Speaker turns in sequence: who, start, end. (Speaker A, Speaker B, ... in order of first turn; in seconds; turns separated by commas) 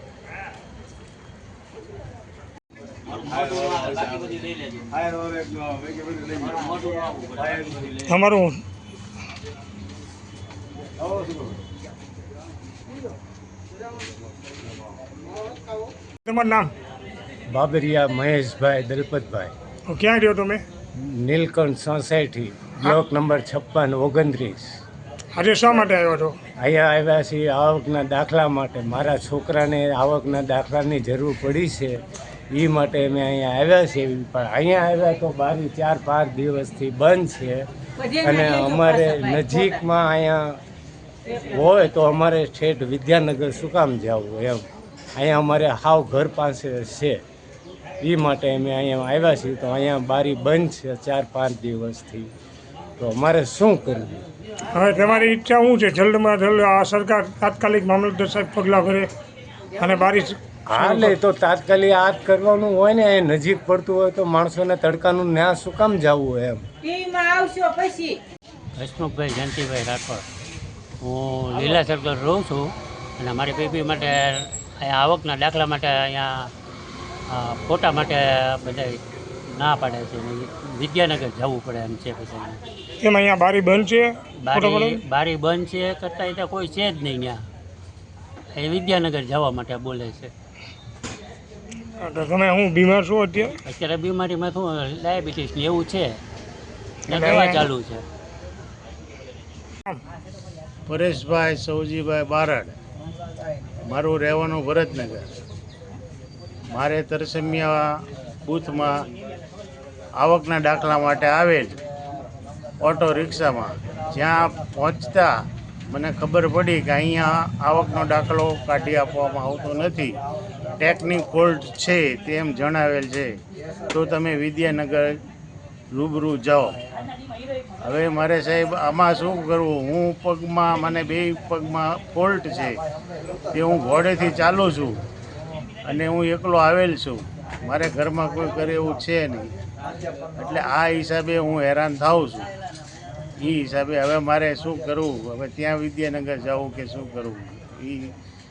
Speaker A: 8.0-8.6, Speaker A: 16.2-16.7, Speaker B: 17.5-19.5, Speaker A: 19.9-20.6, Speaker B: 21.0-24.8, Speaker A: 25.3-26.4, Speaker B: 26.6-32.0, Speaker B: 32.5-40.6, Speaker B: 41.4-44.6, Speaker B: 45.1-47.2, Speaker B: 48.0-52.3, Speaker B: 53.0-54.2, Speaker A: 54.7-59.1, Speaker A: 59.8-61.1, Speaker B: 60.7-66.6, Speaker C: 68.8-70.2, Speaker C: 71.0-76.5, Speaker C: 77.3-79.0, Speaker C: 79.5-82.6, Speaker A: 83.0-85.0, Speaker C: 84.4-87.4, Speaker C: 88.5-90.3, Speaker A: 92.0-93.5, Speaker C: 93.7-96.2, Speaker C: 97.1-98.0, Speaker A: 97.1-97.6, Speaker D: 100.9-102.7, Speaker D: 103.8-105.3, Speaker D: 106.7-107.9, Speaker D: 108.4-109.0, Speaker D: 110.2-111.8, Speaker D: 112.8-115.3, Speaker D: 115.9-120.2, Speaker D: 120.8-123.4, Speaker D: 123.9-125.2, Speaker D: 125.9-126.8, Speaker D: 127.8-132.8, Speaker D: 133.5-135.0, Speaker D: 135.8-139.5, Speaker D: 140.3-142.5, Speaker D: 143.4-148.1